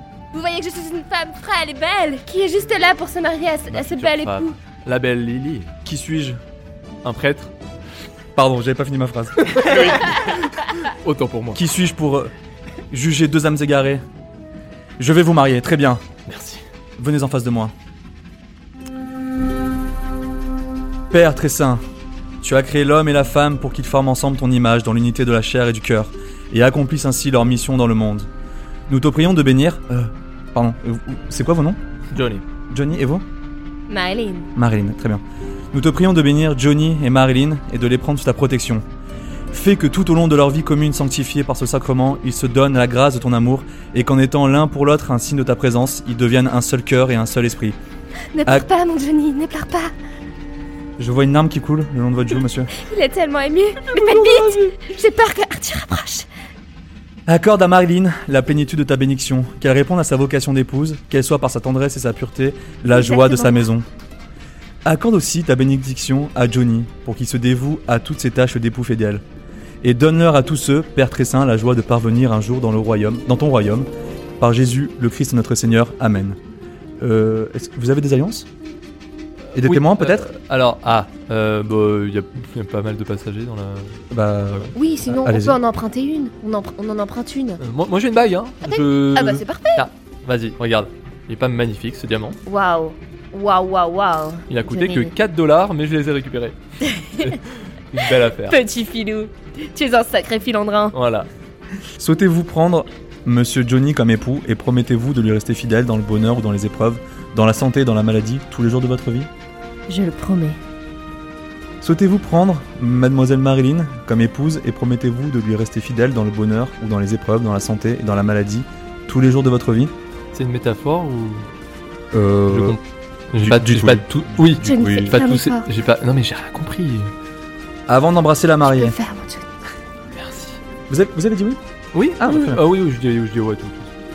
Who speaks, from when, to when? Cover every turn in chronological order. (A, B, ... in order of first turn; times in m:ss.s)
0:00.3-0:04.6 A
0:03.7-0:05.7 B
0:05.8-0:06.4 C
0:07.0-0:07.5 B
0:08.4-0:10.1 C
0:09.5-0:10.2 B
0:10.8-0:11.6 B
0:11.6-0:12.3 C
0:12.9-0:14.0 C
0:15.0-0:16.0 C
0:16.3-0:16.6 B
0:17.0-0:17.7 C
0:21.1-0:21.8 C
0:22.4-0:28.3 C
0:28.9-0:31.8 C
0:32.1-0:32.4 B
0:32.7-0:33.2 C
0:33.9-0:34.5 A
0:34.6-0:38.8 C
0:39.5-0:47.8 C
0:48.3-0:49.9 A
0:51.0-0:52.7 C
0:52.7-0:56.3 A
0:53.9-0:54.7 B
0:57.3-1:03.9 C
1:02.9-1:03.7 A
1:04.8-1:09.2 C
1:09.8-1:13.9 C
1:14.4-1:16.4 C
1:17.0-1:18.5 C
1:19.5-1:24.0 B
1:19.6-1:20.3 C
1:24.1-1:25.6 C
1:24.8-1:27.6 A
1:27.6-1:32.4 B
1:28.6-1:29.9 A
1:32.5-1:35.1 A
1:34.5-1:36.6 B
1:36.8-1:37.4 A
1:37.1-1:38.6 B
1:38.4-1:41.0 A
1:40.9-1:41.3 B
1:42.0-1:49.3 C
1:49.9-1:50.6 A
1:51.8-1:59.9 C
2:00.3-2:01.5 B
2:02.1-2:02.8 C
2:02.5-2:02.8 B
2:03.3-2:07.1 B
2:03.4-2:04.7 C
2:04.6-2:05.7 A
2:07.9-2:09.0 C
2:08.7-2:09.5 A
2:10.2-2:10.6 B
2:10.9-2:11.6 C
2:11.9-2:13.9 B
2:12.2-2:12.6 C